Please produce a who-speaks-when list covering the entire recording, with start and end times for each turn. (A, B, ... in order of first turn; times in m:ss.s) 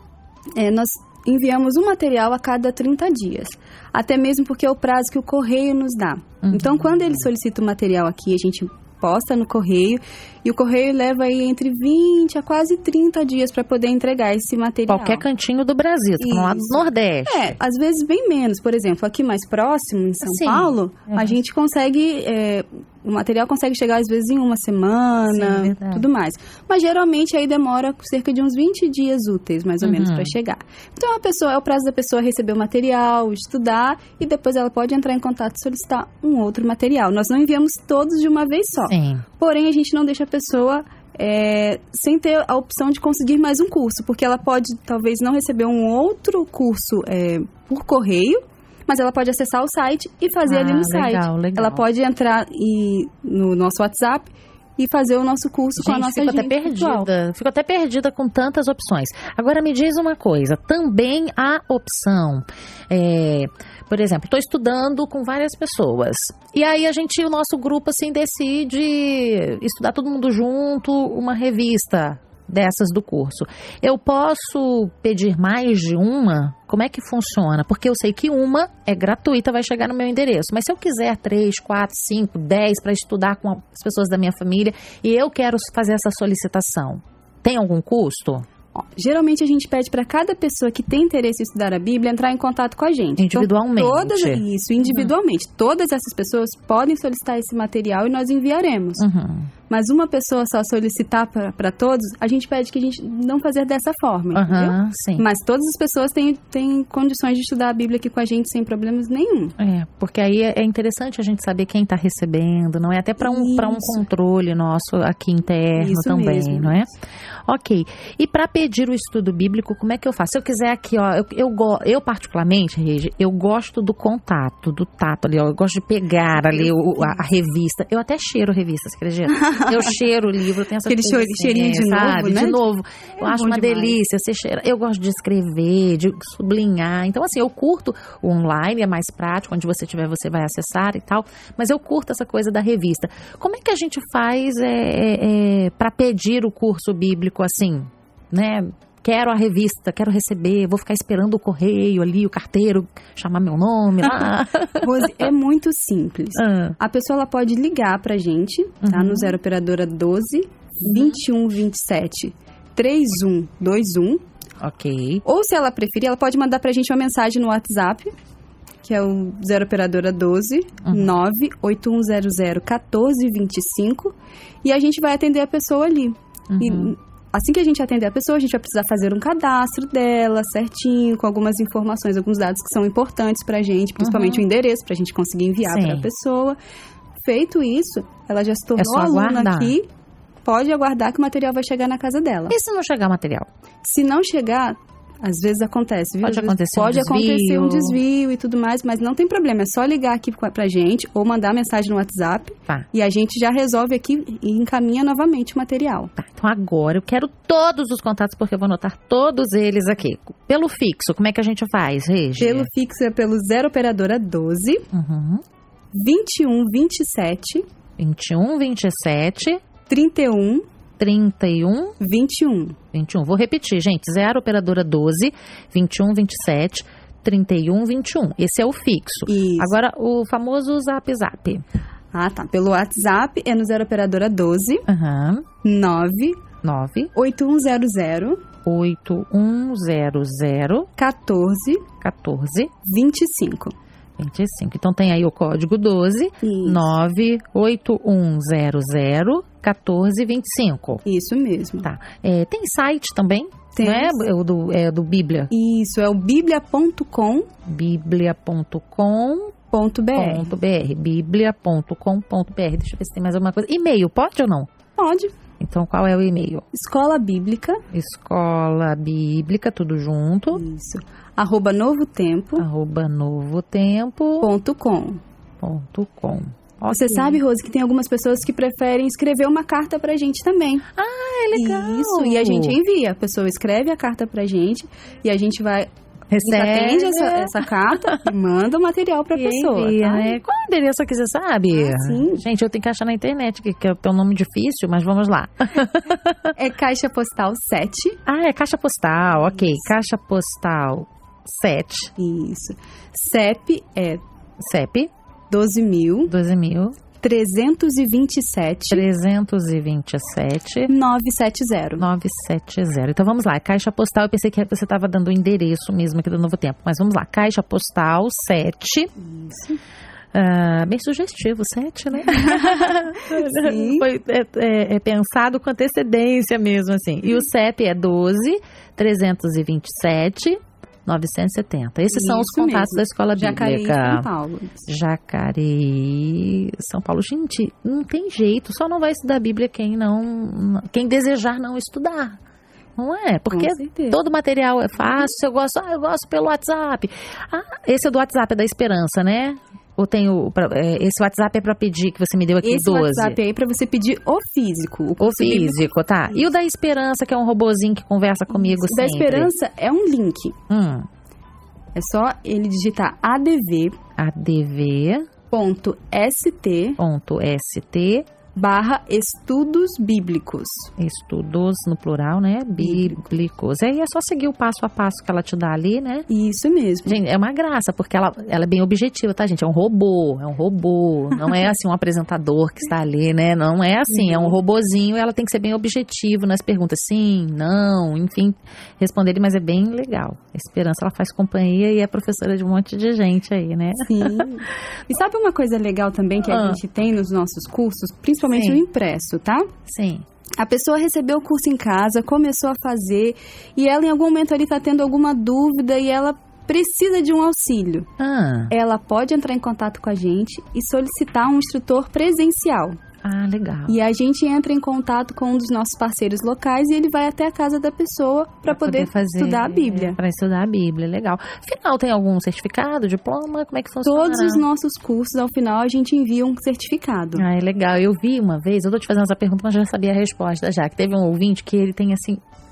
0:00.6-0:15.2 A
0:06.4-0:07.2 B
0:14.9-0:17.6 B
0:16.2-0:57.1 A
0:20.2-0:21.4 B
0:25.2-0:26.0 B
0:29.8-0:30.3 B
0:38.9-0:39.3 B
0:50.5-0:51.8 B
0:55.8-1:28.5 B
1:28.8-1:39.0 A
1:33.2-1:35.1 B
1:39.0-1:39.5 B
1:39.7-1:49.6 A
1:44.3-1:45.3 B
1:49.6-1:56.9 B
1:53.2-1:54.0 A
1:55.8-1:56.9 A
1:57.5-2:35.2 B
2:06.4-2:07.2 A
2:09.3-2:09.9 A
2:10.9-2:12.6 A
2:13.2-2:14.0 A
2:34.8-2:44.2 A
2:36.4-2:36.8 B
2:38.8-2:39.4 B
2:44.6-2:45.2 B
2:45.2-2:48.1 A
2:48.8-3:06.6 A
2:50.8-2:51.1 B
2:56.5-2:57.0 B
3:04.0-3:04.4 B
3:05.6-3:06.1 B
3:07.2-3:09.9 A
3:08.8-3:09.8 B
3:10.4-3:12.6 A
3:12.5-3:13.5 B
3:13.8-3:26.1 A
3:16.2-3:18.0 B
3:26.2-3:32.7 B
3:32.4-3:34.8 A
3:34.9-3:35.4 B
3:35.9-3:37.6 A
3:38.0-3:39.6 B
3:39.9-3:40.6 A
3:41.0-3:42.0 B
3:42.0-3:42.8 A
3:42.9-3:51.6 B
3:49.3-3:49.7 A
3:52.1-3:54.8 A
3:54.9-3:55.5 B
3:55.6-3:56.4 A
3:56.6-3:57.1 B
3:57.2-3:58.4 A
3:58.6-4:00.9 B
4:01.0-4:01.9 A
4:02.0-4:02.7 B
4:02.8-4:03.7 A
4:04.2-4:11.0 B
4:06.4-4:06.9 A
4:11.0-4:11.9 A
4:11.8-4:15.5 B
4:13.7-4:14.2 A
4:15.5-4:17.5 A
4:17.7-4:19.6 B
4:19.7-4:20.5 A
4:20.2-4:24.7 B
4:25.0-4:25.3 A
4:25.6-4:26.7 B
4:26.7-4:27.8 A
4:27.9-4:30.6 B
4:30.5-4:32.6 A
4:32.6-4:34.5 B
4:34.4-4:35.2 A
4:35.6-4:37.4 B
4:36.9-4:40.8 A
4:41.0-4:42.8 B
4:41.5-4:45.9 A
4:46.3-4:48.3 B
4:46.4-4:50.4 A
4:49.3-4:56.5 B
4:51.7-4:52.4 A
4:56.6-4:58.2 A
4:58.3-5:02.1 B
4:59.5-4:59.9 A
5:02.2-5:04.2 A
5:04.6-5:05.1 B
5:05.5-5:06.3 A
5:06.3-5:07.0 B
5:07.2-5:09.0 A
5:08.9-5:10.9 B
5:10.9-5:12.0 A
5:12.0-5:19.1 B
5:19.2-5:19.8 A
5:20.3-5:34.3 B
5:22.2-5:24.1 A
5:32.1-5:34.9 A
5:34.9-5:42.4 B
5:43.0-5:53.4 B
5:43.5-5:44.2 A
5:52.6-5:56.4 A
5:55.2-5:59.5 B
5:58.5-6:00.6 A
6:00.7-6:01.1 B
6:02.0-6:04.0 A
6:04.2-6:05.3 B
6:05.5-6:07.0 A
6:07.0-6:08.3 B
6:08.6-6:10.9 A
6:11.0-6:16.3 B
6:12.8-6:13.2 A
6:16.3-6:17.2 A
6:17.1-6:34.5 B
6:24.1-6:24.6 A
6:34.0-6:39.7 A
6:36.4-6:36.8 B
6:38.5-6:38.8 B
6:39.9-6:40.2 B
6:40.6-6:48.1 A
6:48.2-6:48.7 B
6:48.7-6:53.0 A
6:53.2-6:54.0 B
6:53.9-7:00.2 A
6:58.7-7:04.6 B
7:04.0-7:07.4 A
7:07.4-7:12.4 B